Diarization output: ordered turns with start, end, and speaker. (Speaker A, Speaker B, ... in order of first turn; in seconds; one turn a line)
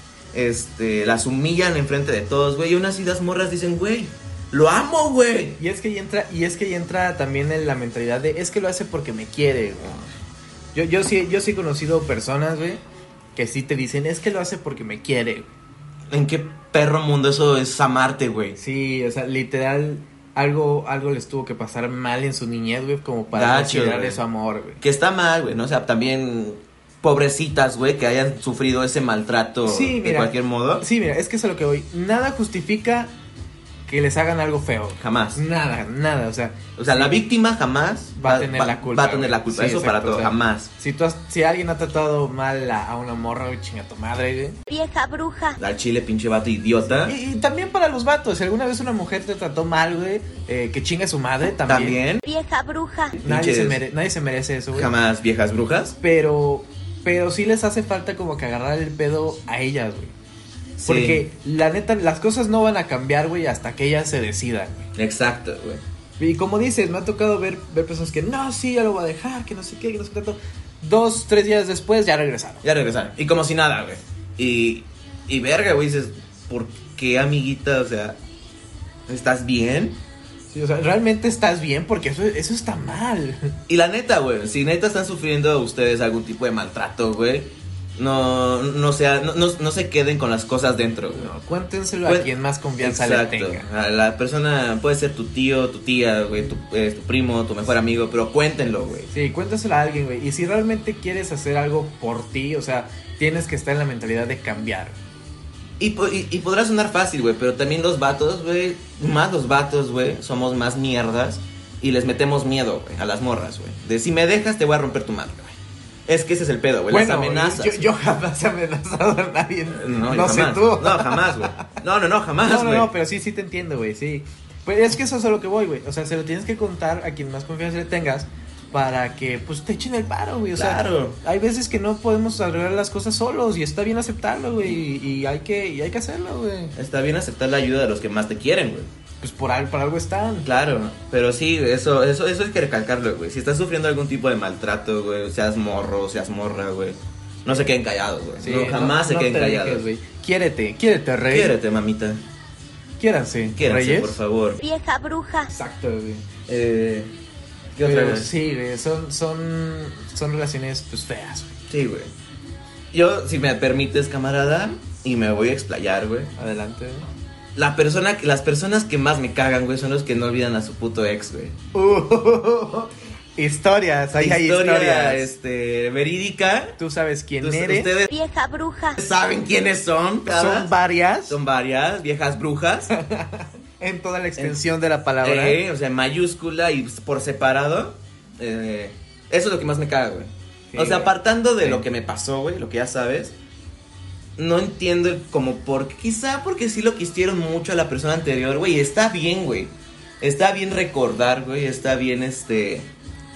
Speaker A: 0.3-5.6
Speaker B: 5.6-10.1
Speaker B: 10.7-12.8
Speaker B: 13.3-15.5
Speaker A: 16.1-18.6
Speaker B: 18.6-24.8
Speaker A: 23.3-24.2
Speaker A: 24.8-30.8
Speaker B: 29.6-33.1
Speaker B: 33.9-37.2
Speaker A: 35.0-35.4
Speaker A: 36.8-40.7
Speaker B: 38.2-44.6
Speaker C: 44.7-45.6
Speaker A: 45.6-47.1
Speaker B: 47.0-52.0
Speaker A: 51.7-52.2
Speaker C: 52.2-53.1
Speaker A: 53.2-53.8
Speaker B: 53.2-54.9
Speaker A: 54.7-56.0
Speaker B: 56.0-60.1
Speaker B: 60.8-64.9
Speaker A: 60.8-61.2
Speaker A: 65.0-65.8
Speaker B: 66.2-72.6
Speaker A: 72.6-78.2
Speaker A: 79.1-80.0
Speaker B: 80.5-83.5
Speaker A: 83.7-91.3
Speaker B: 91.1-93.7
Speaker A: 92.0-99.1
Speaker B: 99.1-105.0
Speaker A: 105.8-117.9
Speaker B: 116.9-121.6
Speaker A: 119.7-122.9
Speaker B: 122.4-136.7
Speaker A: 130.6-131.2
Speaker A: 136.8-138.9
Speaker B: 139.2-140.4
Speaker A: 140.4-149.8
Speaker B: 148.4-151.6
Speaker A: 151.3-152.2
Speaker B: 153.0-154.2
Speaker A: 153.5-154.6
Speaker C: 154.6-155.5
Speaker B: 155.5-156.2
Speaker A: 156.5-157.1
Speaker A: 157.7-158.3
Speaker B: 157.8-161.5
Speaker A: 161.7-162.1
Speaker A: 162.9-166.3
Speaker B: 166.3-167.1
Speaker A: 167.5-171.6
Speaker B: 171.7-175.3
Speaker A: 174.2-176.8
Speaker B: 176.8-177.9
Speaker A: 177.4-178.1
Speaker C: 178.1-179.0
Speaker A: 179.0-180.7
Speaker B: 180.2-181.4
Speaker A: 181.3-182.9
Speaker B: 182.9-185.6
Speaker A: 185.2-193.3
Speaker B: 190.7-191.8
Speaker A: 194.4-202.9